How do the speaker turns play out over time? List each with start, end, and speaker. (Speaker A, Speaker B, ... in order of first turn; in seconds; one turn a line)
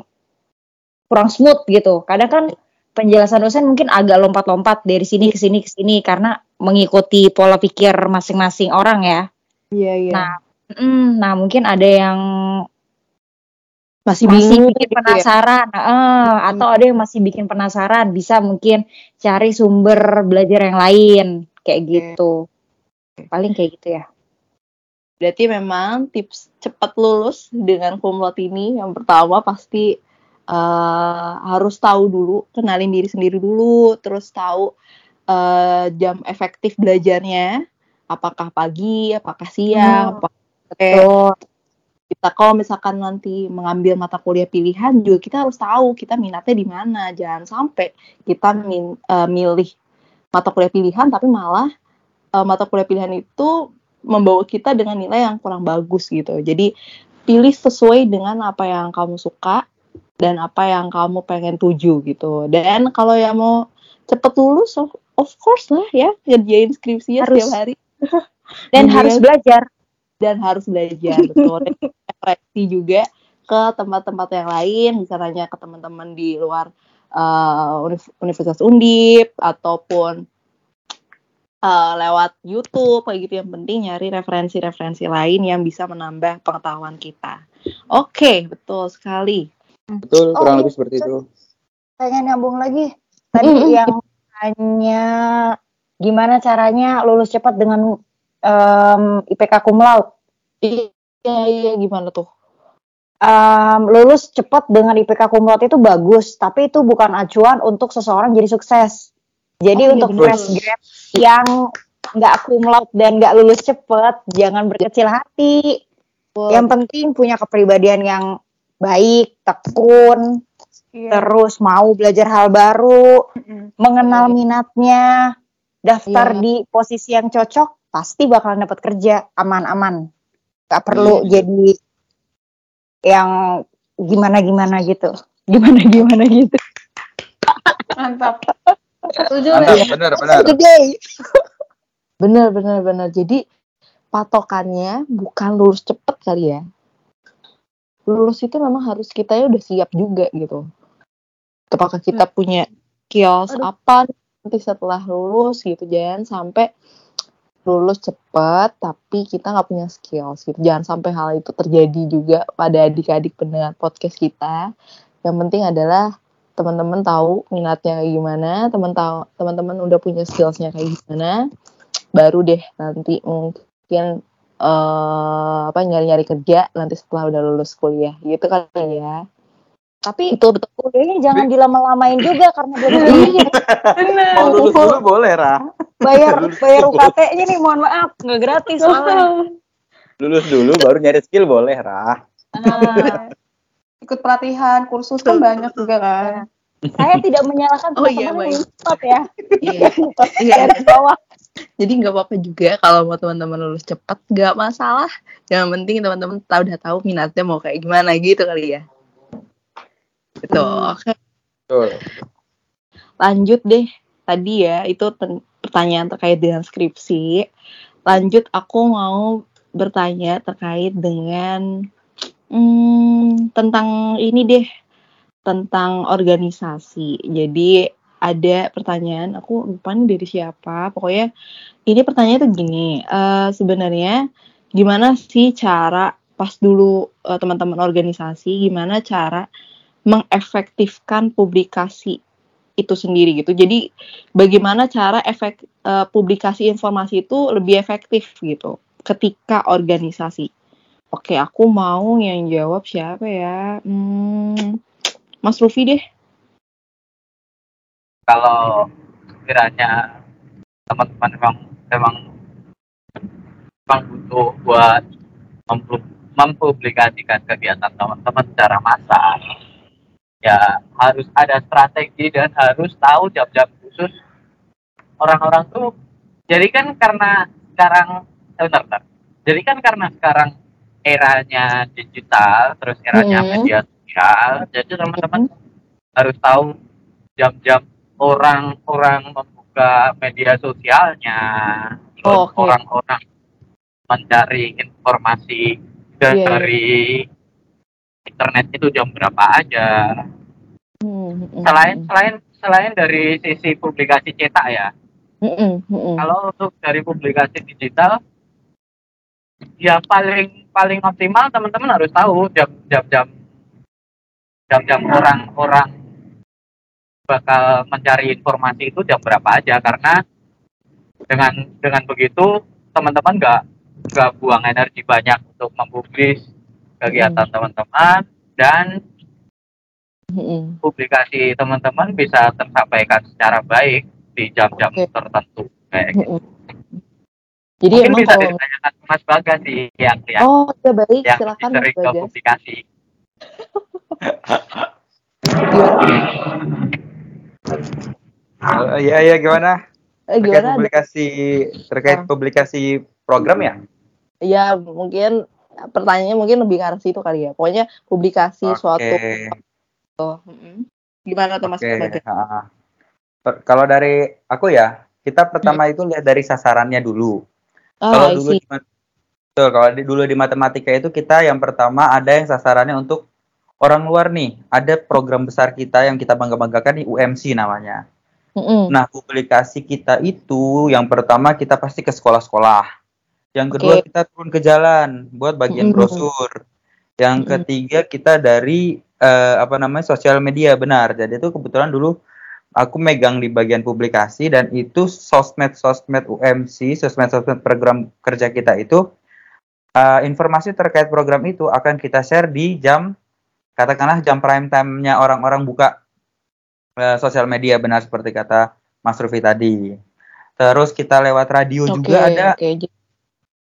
Speaker A: 1.1-9.2
Speaker B: 9.7-10.3
Speaker A: 10.1-12.2
Speaker B: 14.1-15.2
Speaker A: 14.3-22.3
Speaker A: 23.3-24.0
Speaker B: 25.2-29.9
Speaker B: 30.5-34.7
Speaker B: 35.3-37.5
Speaker B: 38.1-41.0
Speaker A: 40.9-41.3
Speaker B: 42.1-49.7
Speaker B: 50.3-51.7
Speaker B: 52.4-53.5
Speaker B: 54.1-56.7
Speaker B: 57.3-59.6
Speaker B: 60.2-63.5
Speaker B: 64.1-67.8
Speaker A: 67.2-67.5
Speaker B: 68.7-69.2
Speaker A: 68.7-69.6
Speaker B: 70.2-80.2
Speaker A: 71.2-71.5
Speaker B: 81.7-87.4
Speaker B: 87.9-89.5
Speaker A: 89.9-90.7
Speaker C: 90.0-91.2
Speaker A: 92.0-95.0
Speaker B: 93.4-93.9
Speaker A: 96.0-97.8
Speaker A: 98.5-100.1
Speaker B: 100.6-102.3
Speaker A: 103.2-109.1
Speaker A: 109.6-111.5
Speaker B: 109.7-110.4
Speaker C: 110.1-110.5
Speaker A: 112.2-115.7
Speaker B: 116.3-116.7
Speaker A: 116.5-118.2
Speaker A: 118.8-120.2
Speaker D: 120.9-121.3
Speaker A: 121.1-123.0
Speaker D: 123.4-123.7
Speaker A: 123.8-125.0
Speaker A: 125.9-130.0
Speaker B: 126.1-126.4
Speaker A: 130.7-131.7
Speaker C: 130.9-131.4
Speaker A: 134.1-136.6
Speaker D: 138.0-138.5
Speaker D: 139.2-139.9
Speaker C: 139.5-140.6
Speaker B: 139.7-140.9
Speaker B: 142.2-143.4
Speaker B: 144.1-146.6
Speaker B: 148.1-150.6
Speaker B: 151.7-156.7
Speaker B: 157.7-164.6
Speaker B: 165.2-171.3
Speaker B: 172.2-174.1
Speaker B: 174.6-179.2
Speaker A: 180.1-183.4
Speaker B: 180.3-180.7
Speaker C: 182.9-187.1
Speaker B: 183.0-183.3
Speaker D: 184.0-184.9
Speaker A: 186.0-189.2
Speaker D: 188.9-189.4
Speaker C: 190.2-193.1
Speaker B: 192.6-193.2
Speaker D: 192.7-193.1
Speaker D: 194.0-196.4
Speaker B: 195.3-195.7
Speaker C: 196.9-197.2
Speaker A: 197.0-201.2
Speaker B: 198.0-198.6
Speaker B: 199.6-200.9
Speaker B: 201.8-208.8
Speaker B: 210.5-211.1
Speaker C: 211.7-212.0
Speaker B: 213.2-217.4
Speaker B: 218.1-219.3
Speaker B: 219.8-221.6
Speaker B: 222.5-224.6
Speaker B: 225.5-227.7
Speaker B: 228.3-231.2
Speaker B: 231.9-234.2
Speaker B: 234.8-239.4
Speaker B: 240.1-242.2
Speaker B: 242.8-243.8
Speaker B: 244.4-250.5
Speaker B: 251.1-254.7
Speaker B: 255.4-256.0
Speaker E: 258.3-258.7
Speaker E: 259.4-259.9
Speaker E: 260.9-262.2
Speaker E: 263.9-265.0
Speaker E: 265.7-269.4
Speaker E: 270.4-274.1
Speaker E: 275.2-275.9
Speaker E: 276.5-280.5
Speaker E: 281.1-285.5
Speaker B: 283.1-283.7
Speaker B: 285.1-285.4
Speaker E: 286.2-286.7
Speaker E: 287.4-293.2
Speaker B: 292.3-292.7
Speaker E: 294.1-297.2
Speaker B: 296.3-296.7
Speaker E: 298.3-299.9
Speaker B: 301.0-302.1
Speaker E: 301.6-304.9
Speaker B: 305.4-306.3
Speaker E: 306.2-308.2
Speaker E: 309.8-313.3
Speaker E: 314.7-315.9
Speaker E: 317.3-320.2
Speaker E: 321.3-323.6
Speaker E: 324.1-326.4
Speaker E: 327.0-328.9
Speaker B: 327.1-327.4
Speaker B: 330.3-330.8
Speaker E: 330.8-336.2
Speaker B: 336.1-336.4
Speaker B: 337.8-338.5
Speaker E: 337.9-340.4
Speaker B: 340.4-342.3
Speaker E: 341.3-342.8
Speaker C: 344.3-344.9
Speaker B: 345.7-346.0
Speaker C: 348.6-349.8
Speaker B: 350.3-350.9
Speaker C: 350.4-353.8
Speaker B: 354.5-355.3
Speaker B: 355.9-359.5
Speaker C: 358.7-359.6
Speaker B: 360.2-362.2
Speaker C: 361.7-362.6
Speaker C: 363.5-367.3
Speaker B: 368.0-368.6
Speaker C: 368.1-368.8
Speaker C: 369.6-373.2
Speaker C: 373.8-378.0
Speaker B: 378.6-378.9
Speaker C: 378.9-382.8
Speaker C: 383.5-386.5
Speaker B: 383.7-384.0
Speaker B: 385.7-386.2
Speaker C: 387.2-392.1
Speaker C: 392.8-399.0
Speaker C: 400.0-403.1
Speaker C: 403.8-405.9
Speaker C: 407.0-409.8
Speaker C: 410.6-412.6
Speaker B: 411.9-412.9